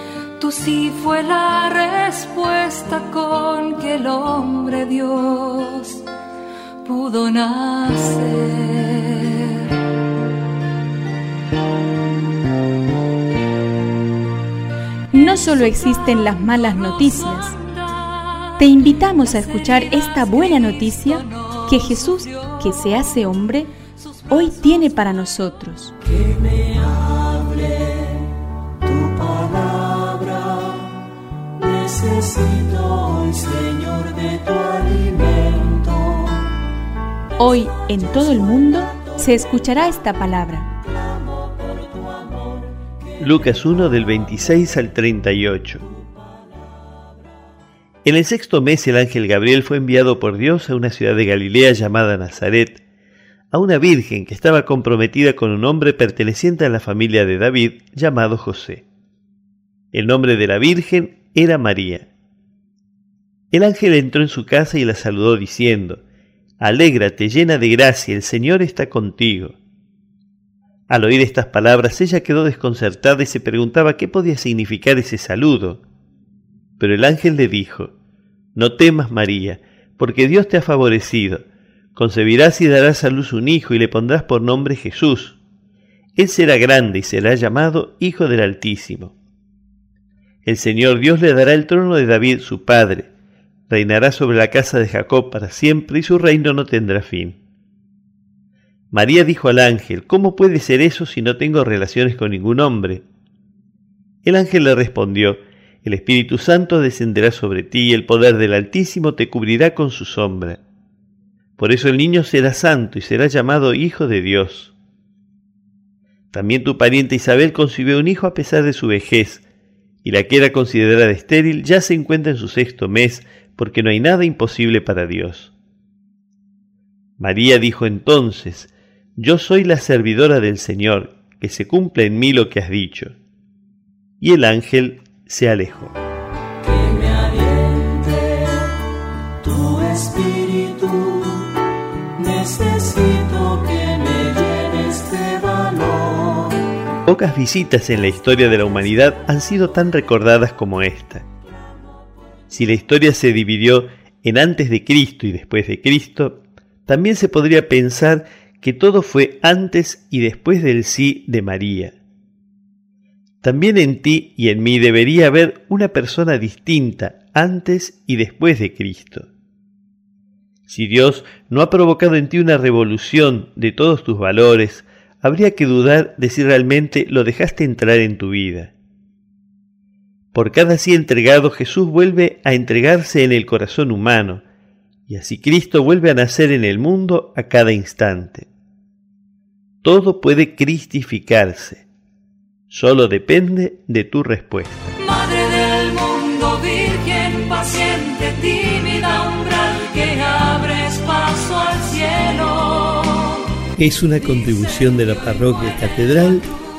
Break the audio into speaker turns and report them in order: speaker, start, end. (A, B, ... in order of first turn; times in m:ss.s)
0:00.4-0:06.0 A
0:06.8-0:09.8 A
0:15.1-0:17.5 B
0:16.9-0:18.6 A
0:18.6-0:23.7 B
0:19.4-0:22.6 A
0:24.3-0:25.9 B
0:26.3-0:28.0 C
0:28.8-0:30.8 C
0:31.6-0:36.3 C
0:37.4-0:40.7 B
0:43.2-0:45.8 D
0:48.0-0:52.8 D
0:53.5-0:58.8 D
0:59.9-1:02.1 D
1:03.5-1:06.0 D
1:06.6-1:09.6 D
1:10.9-1:15.8 D
1:16.8-1:17.9 D
1:18.5-1:21.4 D
1:21.9-1:25.4 D
1:26.2-1:29.1 D
1:30.4-1:33.1 D
1:33.7-1:37.4 D
1:38.9-1:43.0 D
1:44.2-1:50.6 D
1:51.6-1:54.7 D
1:56.3-1:59.4 D
2:00.0-2:05.5 D
2:07.2-2:13.2 D
2:14.2-2:15.9 D
2:27.0-2:31.3 D
2:32.5-2:41.9 D
2:43.4-2:49.3 D
2:50.7-2:58.7 D
3:00.3-3:04.4 D
3:05.1-3:08.5 D
3:09.8-3:11.9 D
3:12.7-3:14.9 D
3:15.0-3:23.5 A
3:23.8-3:26.5 D